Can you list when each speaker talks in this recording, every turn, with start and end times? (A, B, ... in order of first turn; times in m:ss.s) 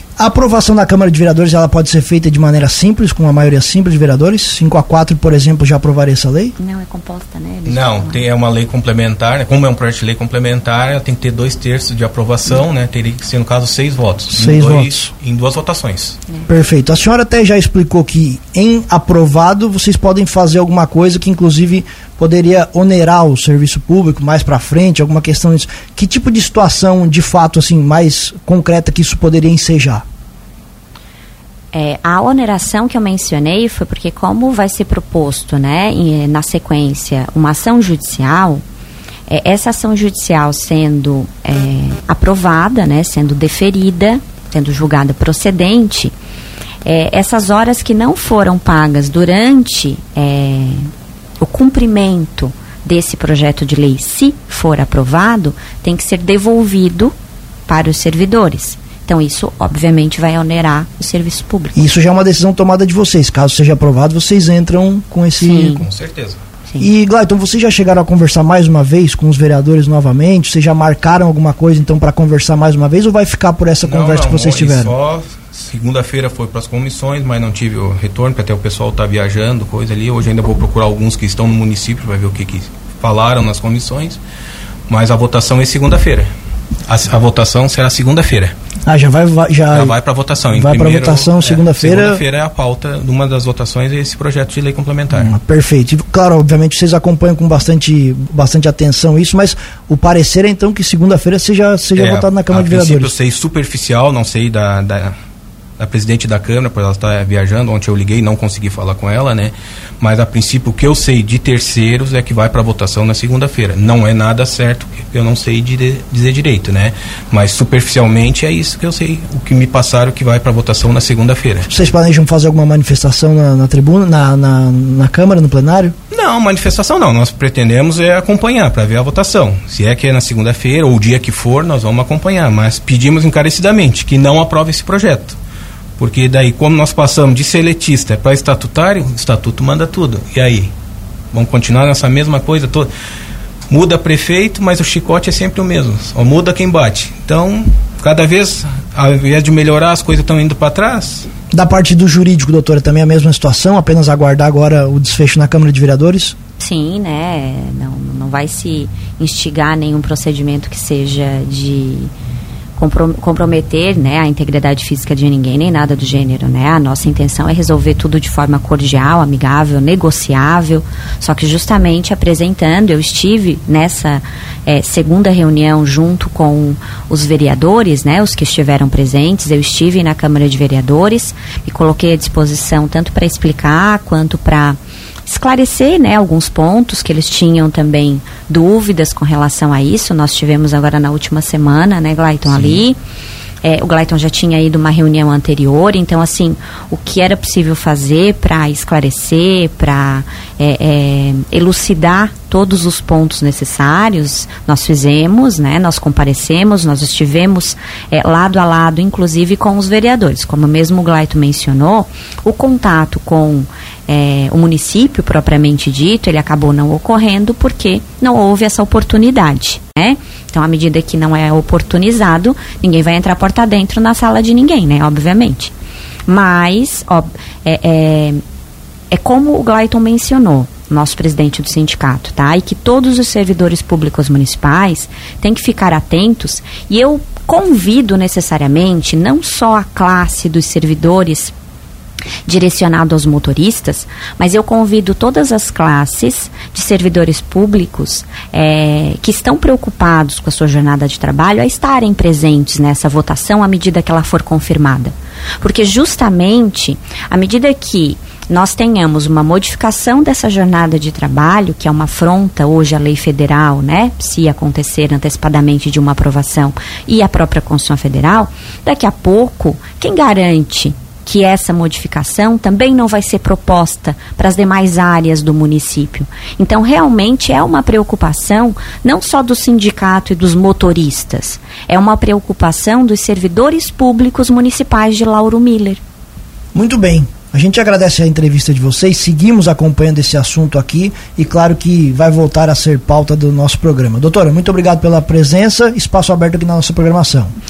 0:00.2-0:06.5 A
0:06.6-0:08.2 B
0:07.6-0:16.2 C
0:14.3-0:15.1 A
0:16.5-0:30.0 A
0:31.7-0:38.6 B
0:39.3-0:46.1 B
0:46.8-0:50.9 B
0:51.4-0:57.1 B
0:57.7-1:01.9 B
1:01.7-1:05.8 A
1:05.4-1:05.8 B
1:05.7-1:06.4 C
1:06.8-1:14.9 A
1:13.8-1:24.2 C
1:24.9-1:26.3 C
1:26.9-1:28.5 C
1:28.8-1:29.9 A
1:29.7-1:35.3 C
1:30.5-1:32.2 A
1:35.1-1:43.1 A
1:41.9-1:45.1 C
1:45.8-2:01.7 C
2:01.7-2:05.9 A
2:06.1-2:15.4 C
2:16.0-2:20.7 C
2:21.3-2:22.9 C
2:23.7-2:31.3 C
2:31.5-2:36.3 A
2:36.6-2:42.1 B
2:42.8-3:13.0 B
3:12.5-3:12.8 C
3:13.6-3:45.7 B
3:46.3-3:48.4 B
3:49.1-4:01.5 B
4:02.4-4:46.0 B
4:46.7-4:57.5 A